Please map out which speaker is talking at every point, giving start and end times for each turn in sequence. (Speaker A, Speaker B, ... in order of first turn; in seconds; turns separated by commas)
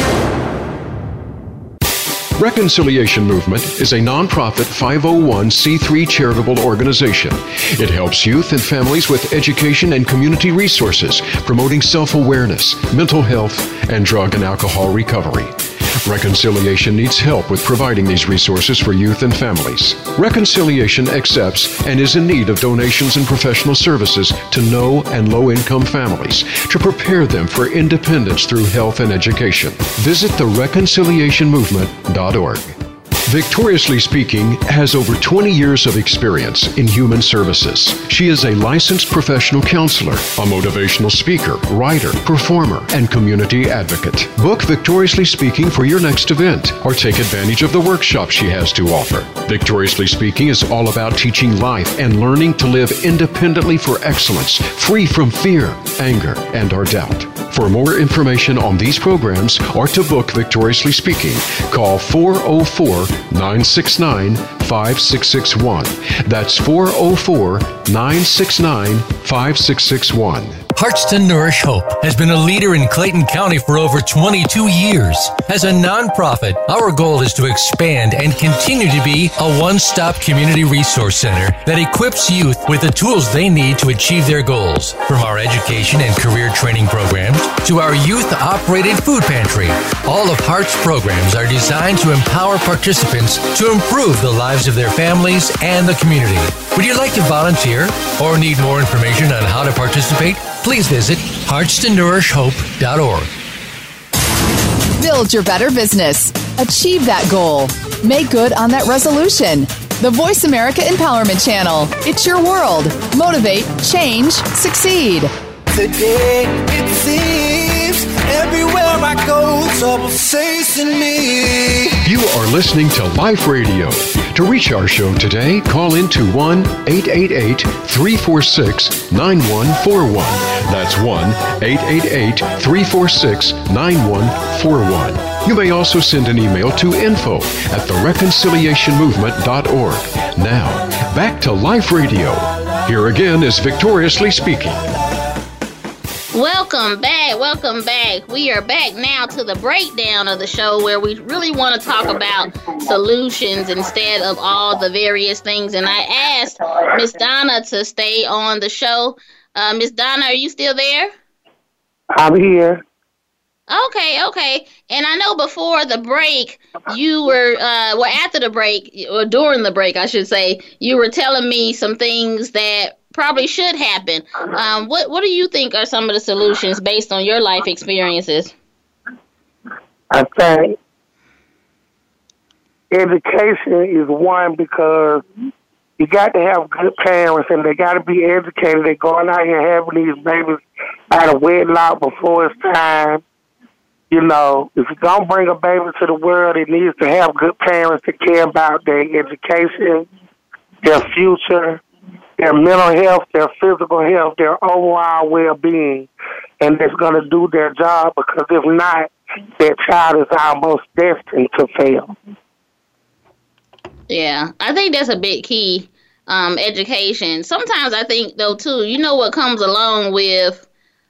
Speaker A: 2.4-70.6, Speaker B: 70.7-103.3, Speaker C: 105.0-115.3, Speaker D: 115.7-122.0, Speaker A: 122.0-144.8, Speaker E: 146.3-161.1, Speaker F: 162.1-162.8, Speaker E: 163.7-178.5, Speaker F: 180.1-180.8, Speaker F: 182.9-185.2, Speaker F: 186.0-193.2, Speaker F: 194.1-200.1, Speaker F: 200.8-201.8, Speaker F: 202.4-206.1, Speaker F: 206.6-212.1, Speaker E: 214.1-220.6